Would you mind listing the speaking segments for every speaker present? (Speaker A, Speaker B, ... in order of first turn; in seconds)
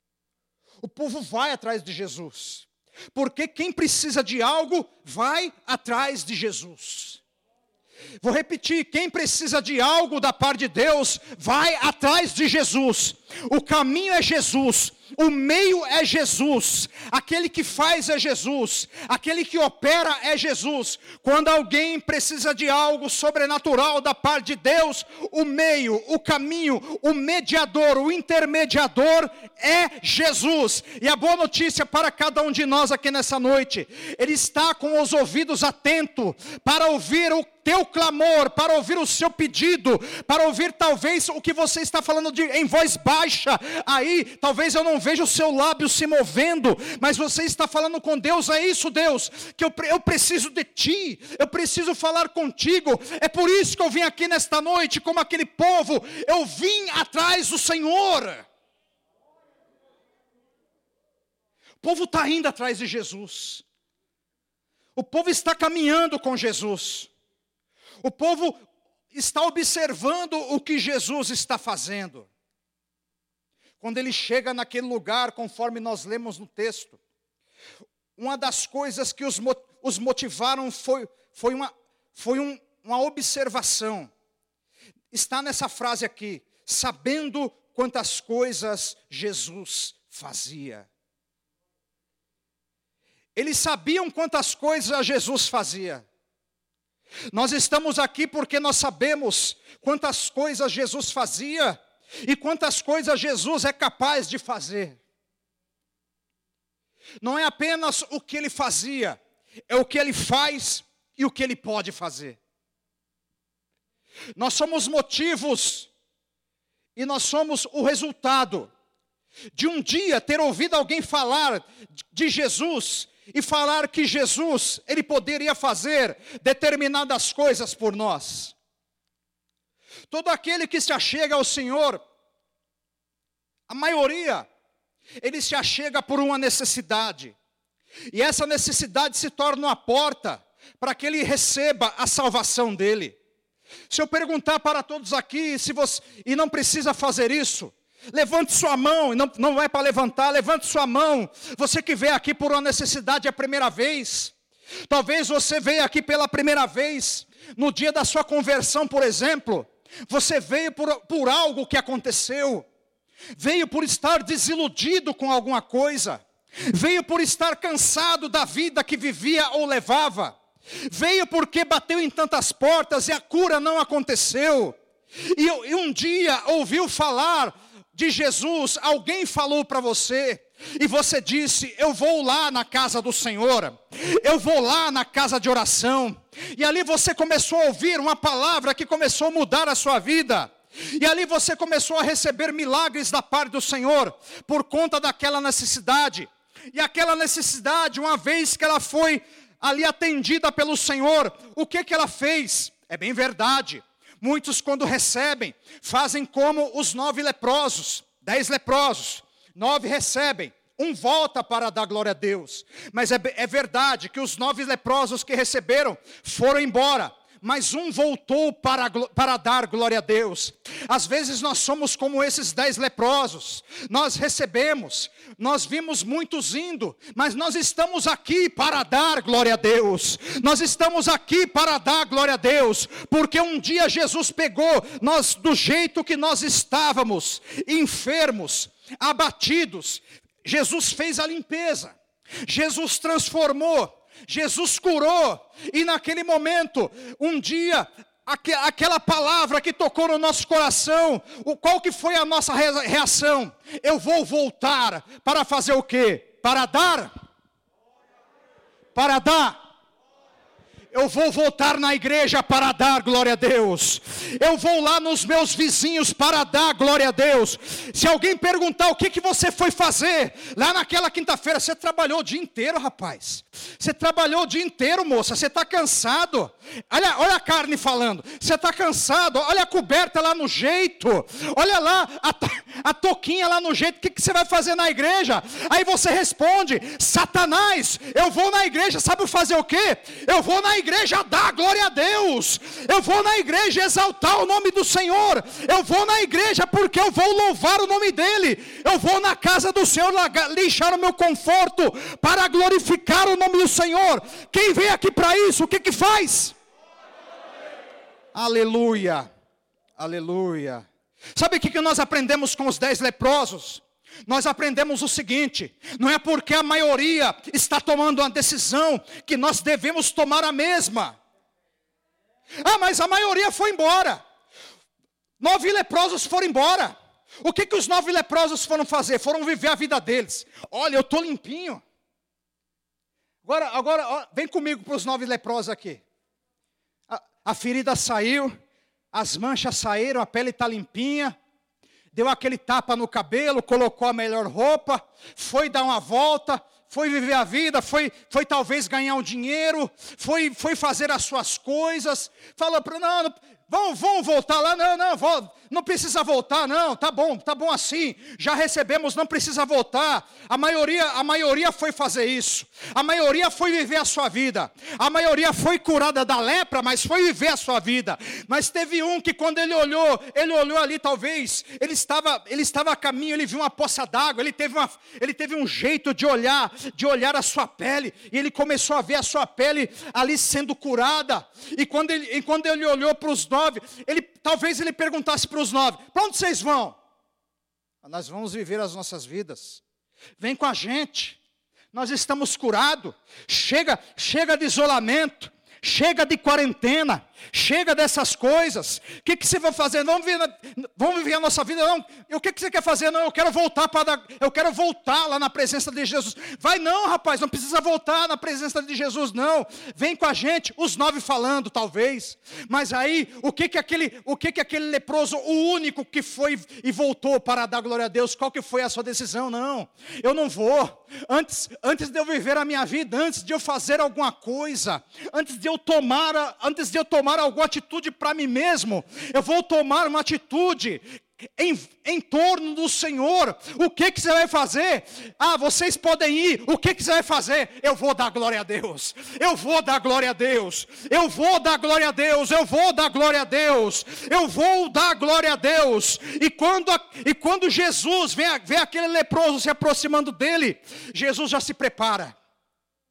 Speaker A: 0.8-7.2, 8.2-58.5, 61.8-63.6, 65.0-67.1, 68.0-72.3, 73.8-77.0, 78.2-84.1, 85.1-90.9, 93.3-96.0, 97.3-105.0, 107.2-112.4, 114.3-115.9, 117.0-118.7, 119.5-128.5, 130.1-132.0, 133.7-134.5, 135.2-137.3, 138.1-143.2, 143.9-154.3, 154.8-162.7, 163.3-257.1, 258.9-259.6, 260.9-306.5, 308.3-309.3, 310.0-321.2, 322.6-324.2, 325.4-331.8, 333.4-336.0, 337.1-338.5, 339.1-341.3, 342.1-387.0, 388.0-389.8, 390.4-391.4, 391.9-452.4